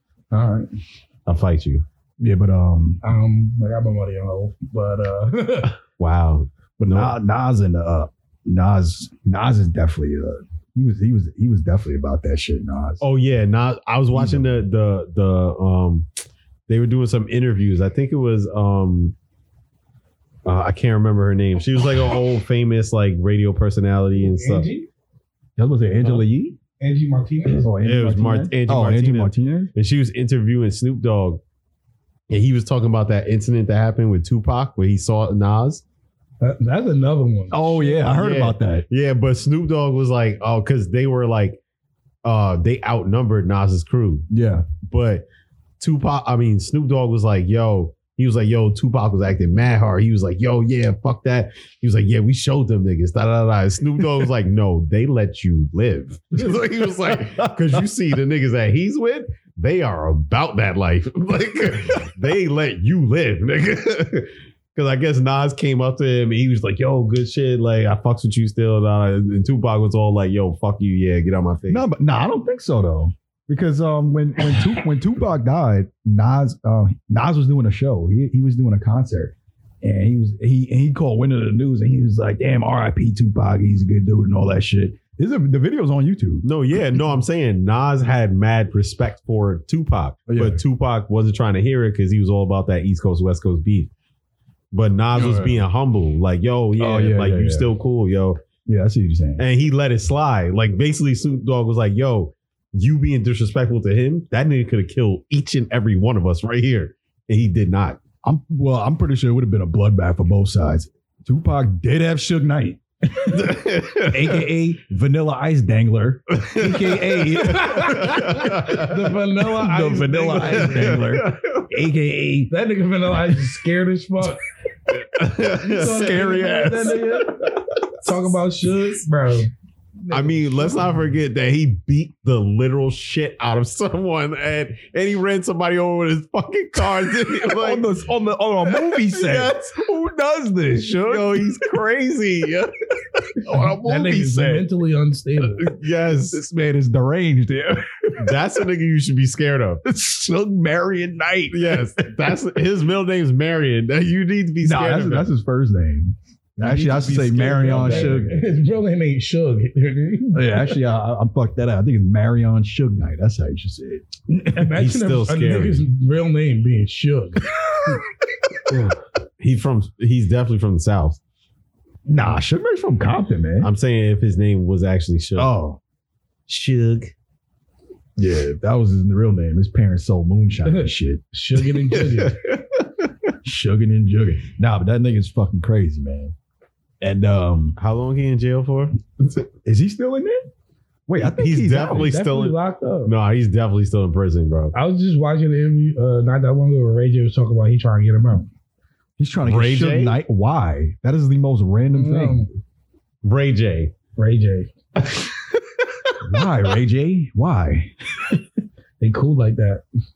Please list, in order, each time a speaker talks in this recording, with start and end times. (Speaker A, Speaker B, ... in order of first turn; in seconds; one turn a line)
Speaker A: 0.3-0.7
Speaker B: 1.2-1.8
Speaker C: 2.2-3.0
Speaker A: 3.0-5.7
Speaker B: 6.0-7.2
Speaker C: 6.8-13.0
Speaker B: 13.0-16.1
Speaker C: 14.1-14.5
Speaker B: 16.7-19.1
Speaker B: 20.4-24.7
Speaker A: 24.2-24.9
Speaker C: 25.6-26.6
Speaker A: 26.8-27.7
Speaker C: 27.4-29.7
Speaker B: 27.8-31.4
Speaker B: 32.3-35.8
Speaker A: 36.4-38.1
Speaker C: 37.5-38.9
Speaker B: 38.1-41.6
Speaker B: 42.2-44.2
Speaker C: 44.3-44.7
Speaker B: 44.8-45.2
Speaker B: 45.8-71.8
Speaker C: 56.4-57.8
Speaker C: 71.7-86.4
Speaker B: 86.4-93.9
Speaker C: 90.3-90.6
Speaker B: 94.7-98.4
Speaker C: 95.1-95.6
Speaker C: 96.8-97.7
Speaker C: 98.7-99.4
Speaker B: 99.4-108.0
Speaker C: 108.2-122.5
Speaker B: 113.3-114.5
Speaker B: 116.4-119.0
Speaker A: 117.3-121.1
Speaker B: 120.6-121.7
Speaker A: 122.5-124.4
Speaker B: 124.9-126.2
Speaker A: 125.6-129.5
Speaker C: 125.6-127.4
Speaker A: 130.0-130.9
Speaker B: 130.1-137.9
Speaker C: 137.1-141.7
Speaker B: 138.7-139.8
Speaker B: 140.9-142.7
Speaker C: 143.4-144.7
Speaker A: 143.7-145.7
Speaker B: 145.6-146.4
Speaker C: 146.3-148.4
Speaker B: 148.2-149.8
Speaker C: 149.8-152.1
Speaker B: 151.5-155.3
Speaker C: 154.6-158.4
Speaker A: 156.6-160.8
Speaker B: 156.7-158.3
Speaker C: 160.3-164.7
Speaker A: 164.4-167.4
Speaker B: 164.8-165.8
Speaker B: 168.7-171.2
Speaker C: 172.1-173.7
Speaker B: 173.6-175.5
Speaker C: 175.4-175.8
Speaker B: 176.5-177.1
Speaker C: 178.2-181.2
Speaker A: 180.6-182.4
Speaker B: 181.9-182.9
Speaker C: 183.4-186.3
Speaker C: 187.0-187.8
Speaker B: 187.8-189.5
Speaker C: 189.6-190.5
Speaker C: 191.1-192.1
Speaker B: 191.2-194.7
Speaker A: 191.8-193.1
Speaker A: 194.7-198.5
Speaker C: 199.2-202.4
Speaker B: 199.4-200.2
Speaker A: 201.9-202.5
Speaker B: 203.2-203.9
Speaker A: 204.2-204.7
Speaker B: 205.0-205.7
Speaker C: 206.2-208.3
Speaker A: 209.0-209.8